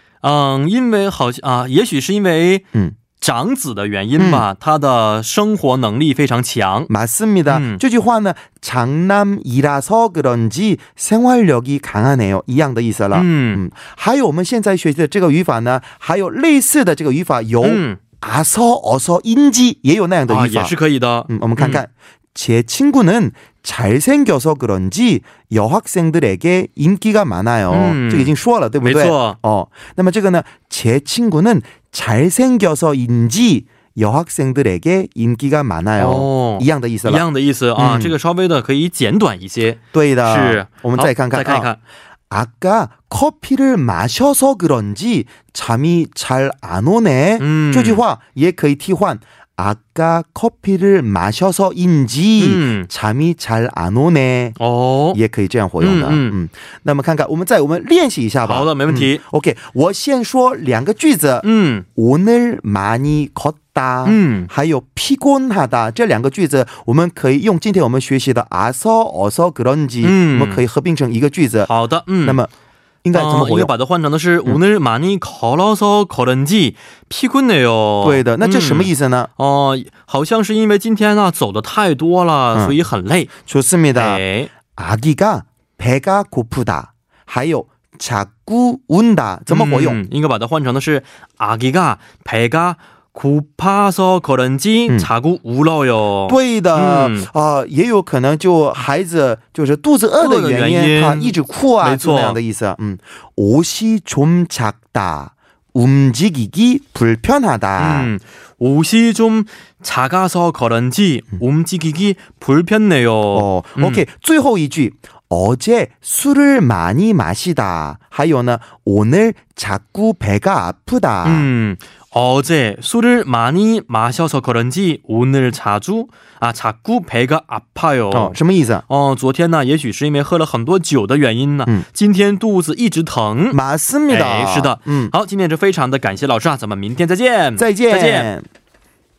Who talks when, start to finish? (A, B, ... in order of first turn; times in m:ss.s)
0:00.2-0:02.6 A
0:03.2-0:06.9 A
0:04.2-0:04.5 B
0:06.9-0:20.7 B
0:07.5-0:07.8 A
0:13.1-0:13.6 A
0:17.6-0:18.0 A
0:20.3-0:21.8 A
0:21.3-0:37.3 B
0:27.7-0:29.4 A
0:36.0-0:41.8 A
0:37.8-0:38.1 B
0:39.9-0:41.7 B
0:42.3-0:54.6 B
0:47.4-0:48.0 A
0:52.4-0:52.9 A
0:54.6-0:55.2 A
0:55.1-1:11.7 B
0:55.8-0:56.4 A
0:58.4-0:59.2 A
1:01.4-1:01.8 A
1:04.0-1:04.5 A
1:10.0-1:10.6 A
1:11.6-1:12.4 A
1:12.2-1:12.5 B
1:13.0-1:13.7 B
1:13.1-1:23.3 A
1:18.0-1:19.3 B
1:23.4-1:30.0 B
1:23.9-1:24.5 A
1:29.5-1:37.3 A
1:36.3-1:48.1 B
1:40.2-1:42.4 A
1:47.8-1:54.0 A
1:53.3-2:01.5 B
2:01.2-2:18.3 A
2:08.1-2:08.8 B
2:13.5-2:15.1 B
2:17.6-2:18.5 B